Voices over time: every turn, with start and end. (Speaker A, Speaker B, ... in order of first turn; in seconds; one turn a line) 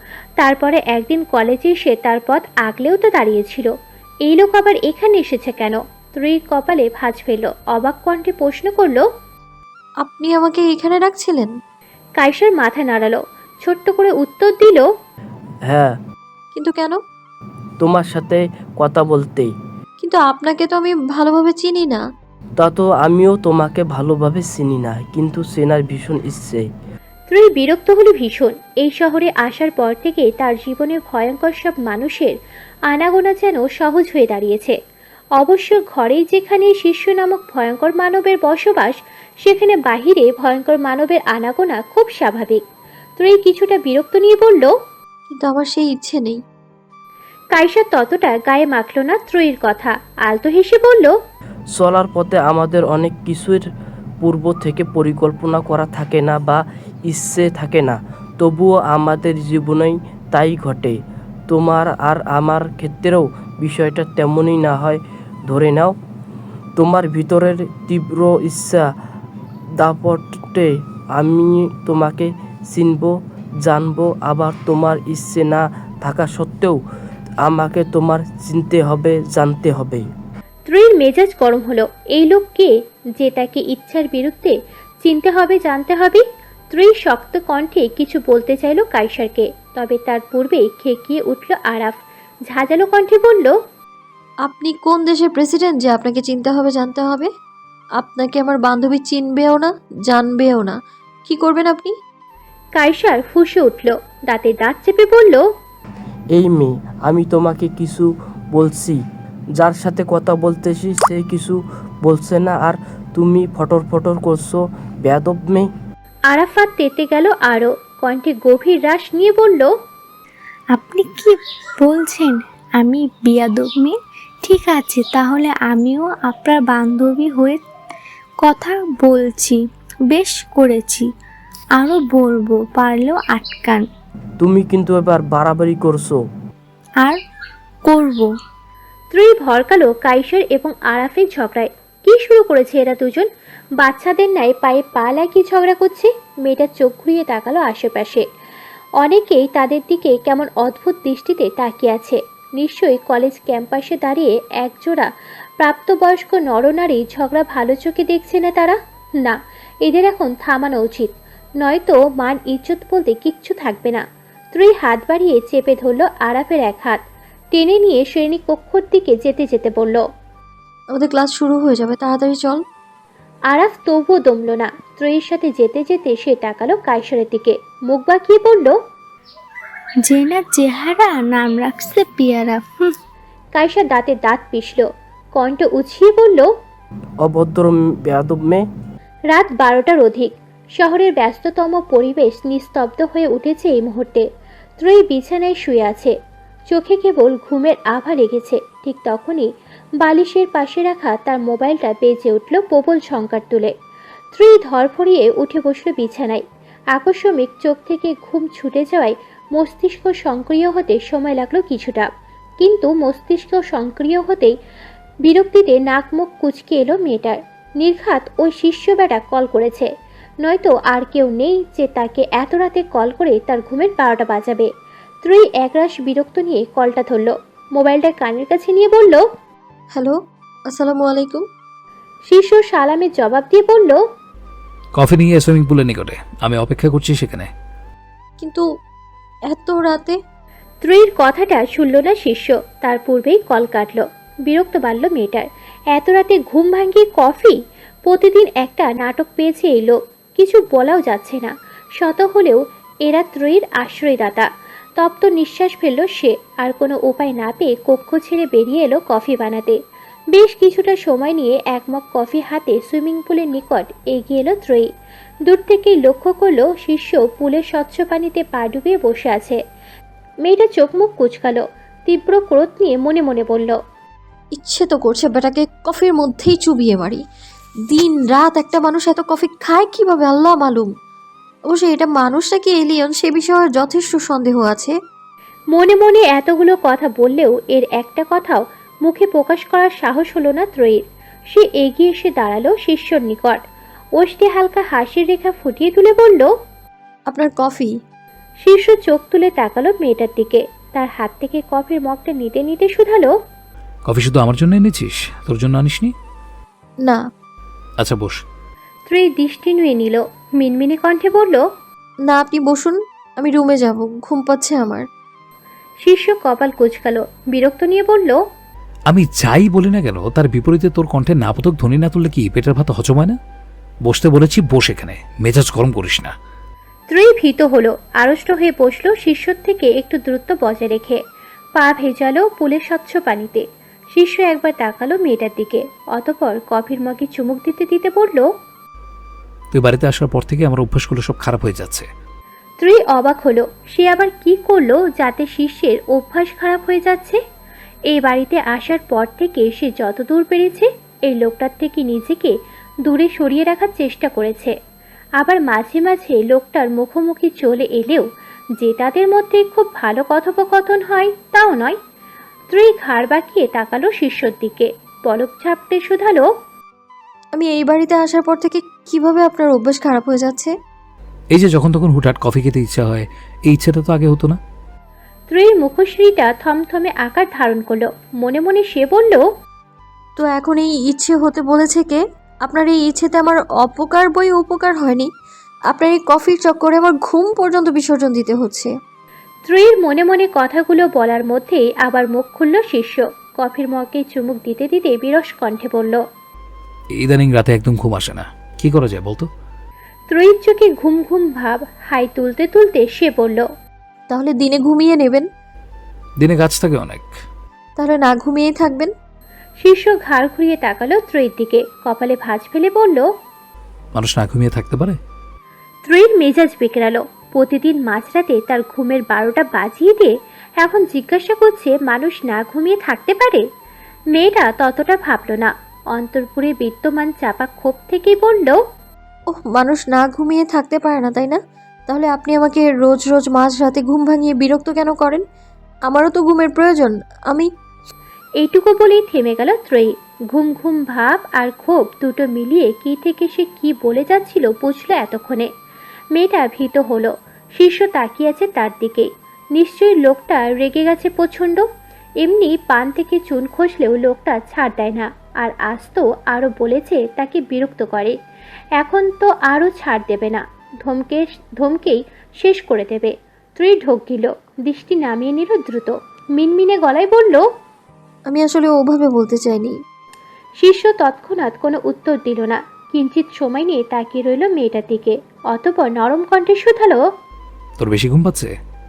Speaker A: 0.4-3.7
Speaker A: 4.3-9.0
Speaker B: 10.0-11.5
Speaker A: 12.2-14.9
Speaker C: 15.7-15.9
Speaker B: 16.5-17.0
Speaker C: 17.8-19.5
Speaker B: 20.0-22.0
Speaker C: 22.6-26.6
Speaker A: 27.3-32.3
Speaker A: 32.9-34.8
Speaker A: 35.4-42.6
Speaker A: 43.2-44.7
Speaker B: 45.3-46.4
Speaker A: 47.5-51.1
Speaker C: 51.7-53.6
Speaker C: 54.2-61.0
Speaker C: 61.5-66.0
Speaker C: 66.8-68.9
Speaker C: 69.8-76.8
Speaker C: 77.4-80.1
Speaker A: 80.7-93.6
Speaker B: 94.4-97.3
Speaker B: 98.0-101.9
Speaker A: 102.8-105.4
Speaker C: 106.3-109.0
Speaker C: 109.6-115.7
Speaker A: 116.3-119.7
Speaker D: 120.7-127.6
Speaker D: 128.4-131.1
Speaker D: 131.8-133.8
Speaker C: 134.4-136.2
Speaker D: 137.8-138.3
Speaker A: 139.1-143.3
Speaker A: 143.8-148.2
Speaker A: 149.0-167.0
Speaker A: 167.5-170.0
Speaker B: 170.9-172.6
Speaker A: 173.5-178.8
Speaker D: 180.0-182.9
Speaker A: 183.5-186.5
Speaker C: 187.2-188.7
Speaker A: 189.3-194.3
Speaker A: 194.8-196.1
Speaker A: 196.7-199.5
Speaker A: 200.0-203.7
Speaker A: 204.3-206.4
Speaker A: 206.9-212.1
Speaker A: 212.6-214.5
Speaker A: 215.2-219.9
Speaker A: 220.4-224.7
Speaker A: 225.2-229.2
Speaker B: 229.9-231.5
Speaker A: 232.3-234.0
Speaker E: 234.9-237.5
Speaker B: 239.5-240.2
Speaker A: 240.8-259.8
Speaker A: 260.3-264.9
Speaker A: 265.5-269.6
Speaker A: 270.4-273.8
Speaker B: 274.5-277.2
Speaker B: 277.9-280.9
Speaker B: 281.7-284.9
Speaker A: 285.7-293.6
Speaker A: 294.2-296.5
Speaker B: 297.3-297.9
Speaker A: 298.6-303.3
Speaker E: 304.1-306.1
Speaker E: 308.0-308.4
Speaker A: 309.1-311.6
Speaker B: 312.3-315.1
Speaker A: 316.0-318.4
Speaker E: 319.1-323.4
Speaker E: 324.0-326.3
Speaker A: 327.1-331.2
Speaker A: 331.8-338.5
Speaker E: 339.7-342.1
Speaker A: 342.8-347.4
Speaker A: 348.1-354.7
Speaker A: 355.4-358.3
Speaker A: 358.8-362.0
Speaker A: 362.7-366.5
Speaker B: 367.6-370.7
Speaker E: 371.5-374.6
Speaker A: 375.5-379.4
Speaker B: 380.4-385.3
Speaker B: 385.9-388.9
Speaker A: 389.6-396.2
Speaker E: 397.2-399.5
Speaker A: 400.3-403.6
Speaker B: 404.3-405.5
Speaker E: 406.4-407.3
Speaker B: 408.0-409.1
Speaker A: 409.8-413.3
Speaker E: 414.1-415.2
Speaker A: 416.1-423.6
Speaker A: 424.3-428.8
Speaker B: 429.5-435.4
Speaker B: 436.1-437.7
Speaker A: 438.6-445.7
Speaker A: 446.3-451.9
Speaker A: 452.4-458.3
Speaker A: 459.0-467.6
Speaker B: 468.5-470.0
Speaker A: 470.8-477.2
Speaker E: 478.0-478.7